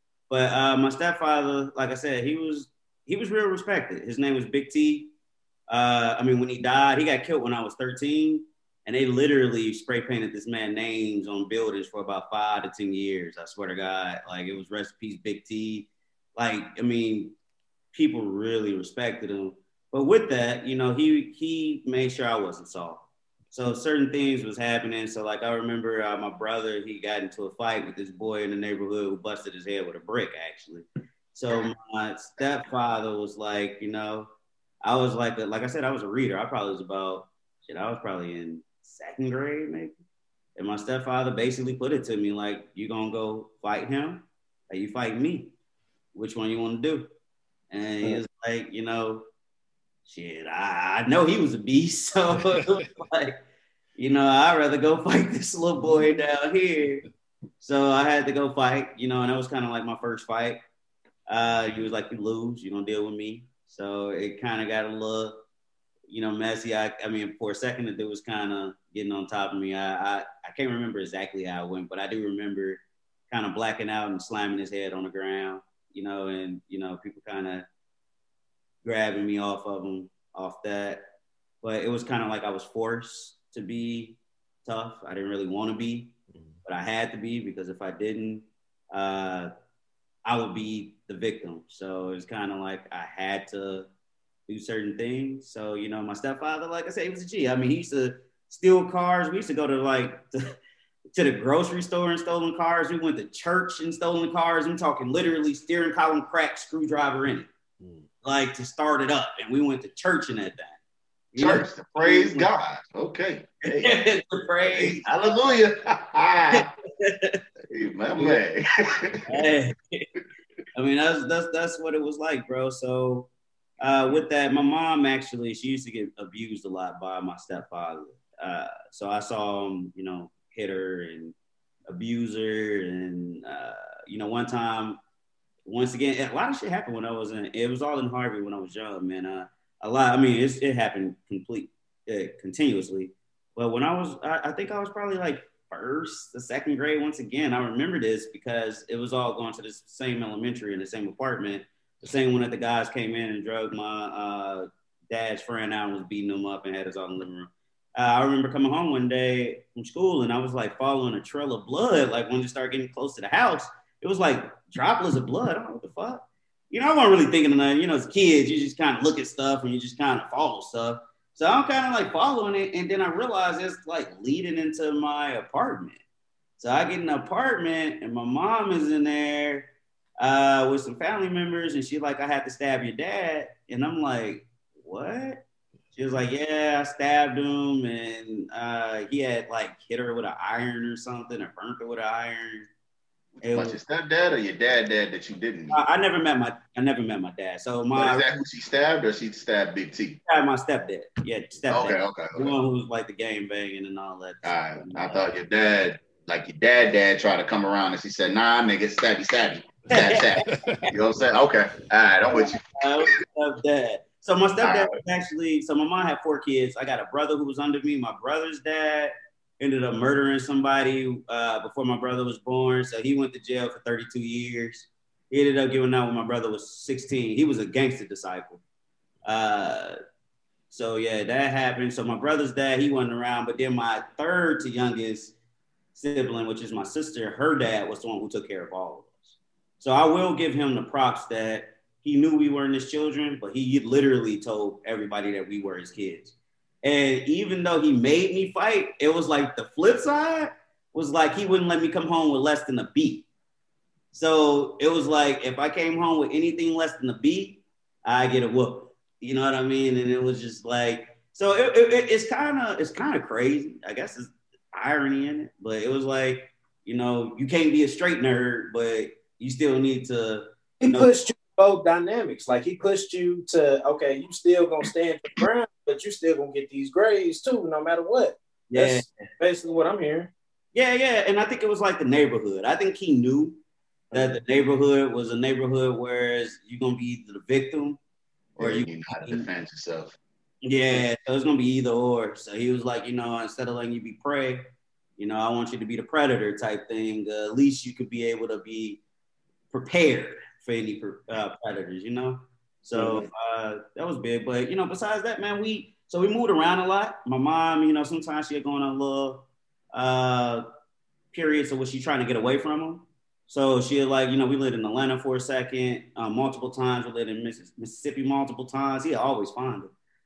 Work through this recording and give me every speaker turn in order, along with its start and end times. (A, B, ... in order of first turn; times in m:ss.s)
0:00.3-0:05.1 A
0:05.7-0:17.4 A
0:17.9-0:34.3 A
0:34.8-0:39.9 A
0:40.6-0:45.5 A
0:46.1-0:47.1 A
0:47.7-0:49.2 A
0:50.0-0:53.4 A
0:54.0-0:57.0 A
0:57.6-1:00.6 A
1:01.3-1:05.4 A
1:06.1-1:17.7 A
1:18.8-1:21.1 A
1:21.6-1:26.1 A
1:26.6-1:29.5 A
1:30.2-1:33.9 A
1:34.5-1:40.4 A
1:41.1-1:47.5 A
1:48.2-1:50.8 A
1:51.3-1:52.5 A
1:51.4-1:54.0 B
1:53.8-1:55.6 A
1:54.7-1:56.7 B
1:56.5-1:57.4 A
1:57.7-1:59.4 B
1:59.3-2:00.1 A
2:00.7-2:03.3 A
2:03.8-2:11.3 A
2:11.9-2:15.0 A
2:15.6-2:56.0 A
2:56.6-3:12.7 A
3:13.4-3:13.8 A
3:13.5-3:15.8 B
3:15.7-3:18.4 A
3:17.9-3:20.2 B
3:20.2-3:25.3 A
3:21.7-3:22.5 B
3:24.4-3:32.6 B
3:29.9-3:30.9 A
3:32.3-3:48.6 A
3:34.6-3:35.0 B
3:49.2-3:50.0 A
3:50.7-3:55.3 A
3:55.9-4:13.3 A
4:14.1-4:31.1 A
4:30.8-4:40.3 C
4:38.7-4:39.3 A
4:40.7-4:43.6 A
4:44.1-4:44.4 C
4:44.1-4:48.0 A
4:48.6-4:50.2 B
4:48.6-4:49.5 A
4:50.6-4:54.6 A
4:55.2-4:59.0 A
4:59.7-5:10.6 A
5:02.9-5:03.2 C
5:11.3-5:19.9 A